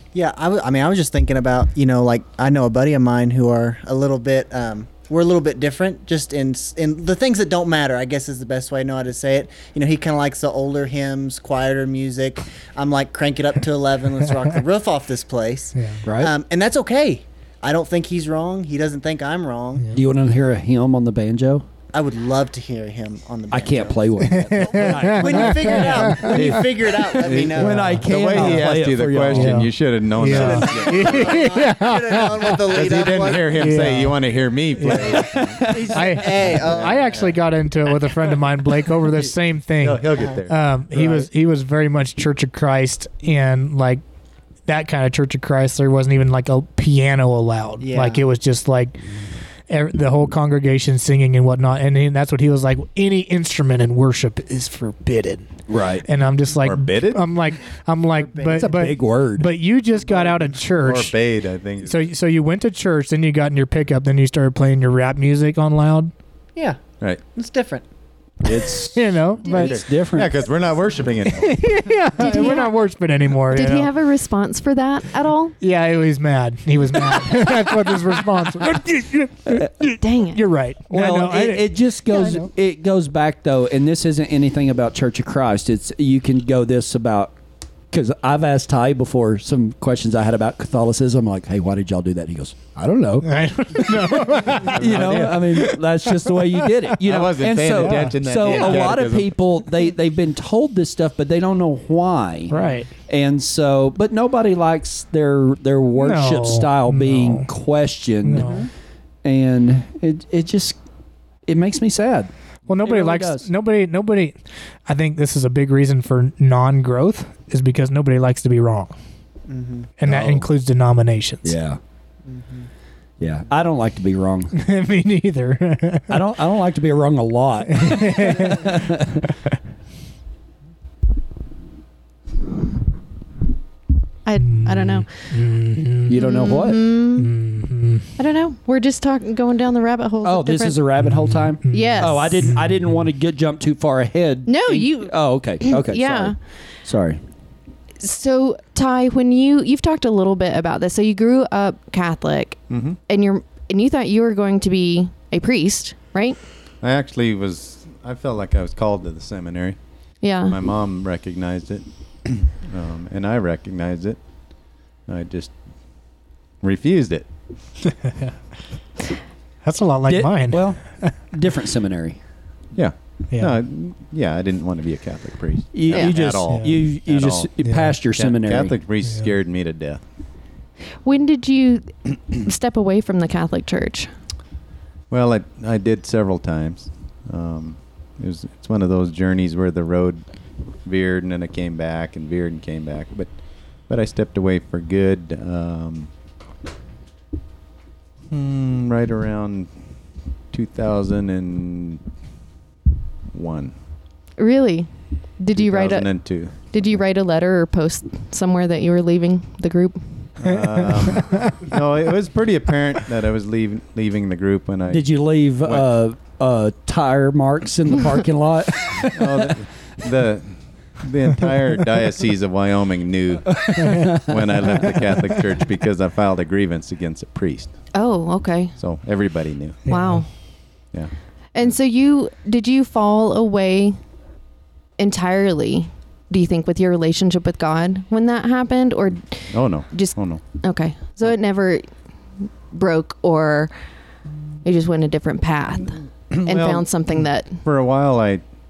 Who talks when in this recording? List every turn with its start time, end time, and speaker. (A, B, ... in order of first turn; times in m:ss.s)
0:00.1-0:19.8 A
0:15.8-0:16.0 B
0:16.0-0:16.3 C
0:19.9-0:21.6 C
0:21.9-0:28.5 A
0:23.5-0:29.7 C
0:24.2-0:26.6 B
0:26.2-0:31.6 D
0:29.3-0:32.6 B
0:30.2-0:33.6 A
0:32.7-0:35.8 D
0:33.5-0:34.2 B
0:34.8-0:35.1 B
0:35.1-0:36.2 C
0:35.6-0:37.3 A
0:35.9-0:44.0 B
0:36.4-0:37.3 D
0:39.8-0:41.2 D
0:44.6-0:49.0 B
0:47.8-0:48.2 A
0:49.7-0:55.5 B
0:55.7-0:56.0 C
0:56.0-1:01.1 B
0:56.6-0:57.2 D
0:58.2-0:58.7 A
0:58.5-0:59.5 C
1:00.8-1:02.1 D
1:01.8-1:06.1 B
1:07.3-1:07.8 A
1:08.4-1:10.4 C
1:08.8-1:09.8 B
1:09.5-1:11.6 D
1:11.3-1:13.9 B
1:12.2-1:12.7 E
1:13.5-1:15.6 E
1:15.6-1:22.5 B
1:20.0-1:20.4 E
1:20.9-1:27.3 C
1:27.9-1:42.5 C
1:33.2-1:34.8 B
1:34.6-1:35.6 D
1:35.5-1:36.7 B
1:37.0-1:39.4 D
1:37.8-1:38.2 B
1:42.5-1:42.9 B
1:43.1-1:48.6 C
1:46.0-1:47.5 B
1:48.2-1:48.6 B
1:48.3-1:48.7 A
1:49.2-1:50.8 C
1:51.4-1:53.5 C
1:52.7-1:59.0 B
1:59.5-1:59.9 A
2:00.0-2:01.5 B
2:00.0-2:00.5 C
2:01.4-2:01.8 C
2:02.3-2:02.7 A
2:03.2-2:04.5 C
2:04.5-2:06.2 B
2:06.1-2:09.2 C
2:07.7-2:08.9 B
2:14.2-2:15.1 E
2:14.4-2:16.2 B
2:16.1-2:16.8 C
2:16.1-2:17.3 E
2:17.2-2:18.1 B
2:18.2-2:20.8 E
2:20.2-2:27.2 C
2:21.0-2:22.9 B
2:21.7-2:22.5 E
2:24.5-2:26.4 E
2:28.0-2:36.4 E
2:32.7-2:33.0 D
2:36.8-2:39.8 D
2:40.2-2:40.6 E
2:40.4-2:44.3 D
2:45.0-2:45.6 D
2:46.6-2:47.3 D
2:49.6-2:51.1 B
2:50.1-2:52.2 C
2:52.7-2:57.5 D
2:55.7-2:58.8 C
2:56.5-2:56.8 B
2:57.6-2:57.9 B
2:58.2-3:00.0 D
3:01.0-3:04.1 E
3:05.1-3:10.2 D
3:10.8-3:13.3 D
3:13.8-3:16.1 D
3:18.3-3:19.7 D
3:20.5-3:22.0 D
3:23.3-3:23.7 D
3:24.4-3:30.3 E
3:25.5-3:26.6 D
3:30.4-3:35.1 D
3:30.4-3:31.6 B
3:34.9-3:39.5 C
3:35.6-3:35.9 D
3:39.1-3:47.7 D
3:43.7-3:44.0 C
3:43.8-3:44.2 B
3:47.9-3:48.7 E
3:48.8-3:49.8 D
3:49.8-3:50.2 B
3:49.9-3:50.3 E
3:51.5-3:54.0 E
3:55.0-4:01.8 E
3:59.5-4:00.4 D
4:02.7-4:03.7 E
4:04.6-4:07.6 E
4:06.3-4:06.9 D
4:07.6-4:08.4 D